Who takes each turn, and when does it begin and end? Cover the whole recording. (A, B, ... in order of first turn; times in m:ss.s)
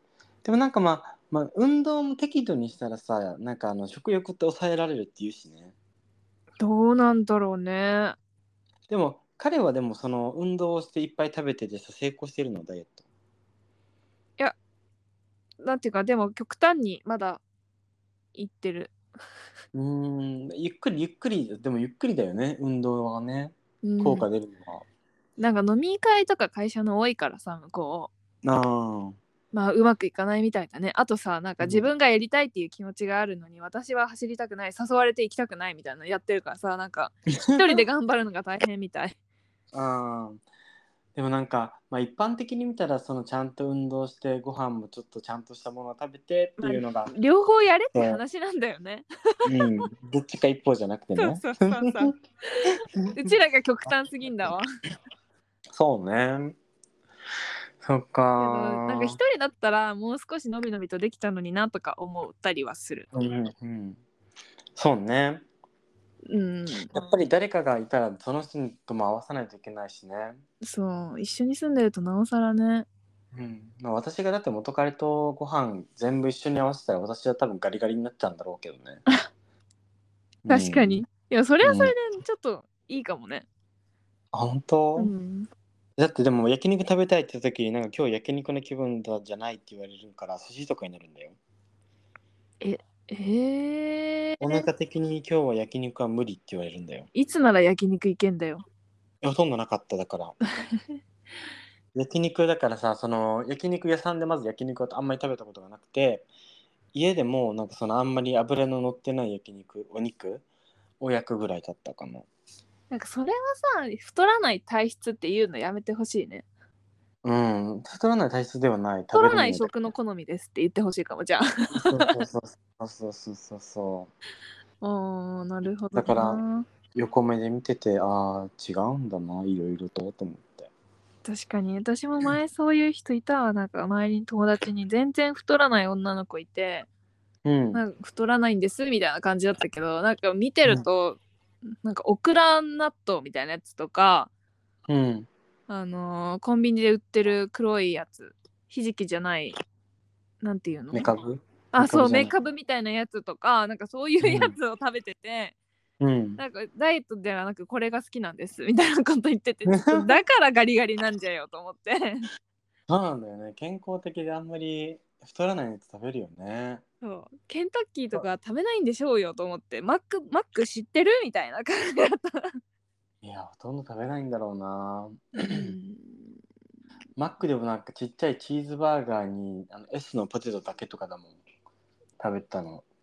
0:00.4-0:05.7 A
0:06.6-0:08.2 B
0:08.9-0:13.0 A
0:15.6-0:17.4 B
0:18.4-0:18.9 B
0:19.7-0:24.8 A
0:23.8-0:24.3 B
0:25.4-0:28.1 B
0:28.4-0:29.2 A
0:29.5-0:39.2 B
0:31.6-0:31.9 A
0:37.3-0:37.8 A
0:39.7-0:40.4 A
0:41.2-0:47.1 A
0:46.6-0:49.8 B
0:47.9-0:48.2 A
0:49.4-0:52.1 A
0:51.2-0:54.7 B
0:52.6-0:53.3 A
0:55.7-0:56.6 A
0:57.8-0:59.2 A
0:58.4-1:03.1 B
1:03.1-1:04.0 A
1:04.8-1:05.5 A
1:06.3-1:07.0 B
1:06.9-1:10.4 A
1:10.6-1:12.9 B
1:13.3-1:19.0 A
1:20.4-1:21.0 A
1:20.5-1:23.5 B
1:21.6-1:21.9 A
1:24.3-1:25.1 A
1:25.0-1:25.5 B
1:26.0-1:31.4 A
1:32.6-1:34.7 B
1:34.4-1:37.1 A
1:37.2-1:38.6 B
1:39.2-1:40.4 A
1:41.9-1:46.3 A
1:46.9-1:50.4 A
1:51.0-1:52.3 A
1:52.9-1:56.4 B
1:57.2-1:59.8 A
1:59.1-2:02.3 B
2:01.7-2:04.1 A
2:04.8-2:06.7 B
2:06.0-2:06.4 A
2:06.9-2:10.7 A
2:11.2-2:16.9 B
2:17.4-2:17.8 A
2:17.7-2:21.2 B
2:21.7-2:24.3 B
2:24.9-2:25.3 A
2:25.7-2:29.6 B
2:30.4-2:31.1 B
2:30.9-2:32.3 A
2:31.7-2:35.5 B
2:34.2-2:34.5 A
2:36.0-2:36.4 A
2:36.4-2:42.3 B
2:39.7-2:40.2 A
2:42.9-2:46.8 A
2:47.0-2:52.6 B
2:53.2-2:55.8 A
2:55.4-2:56.4 B
2:57.2-3:01.4 A
3:02.2-3:02.8 A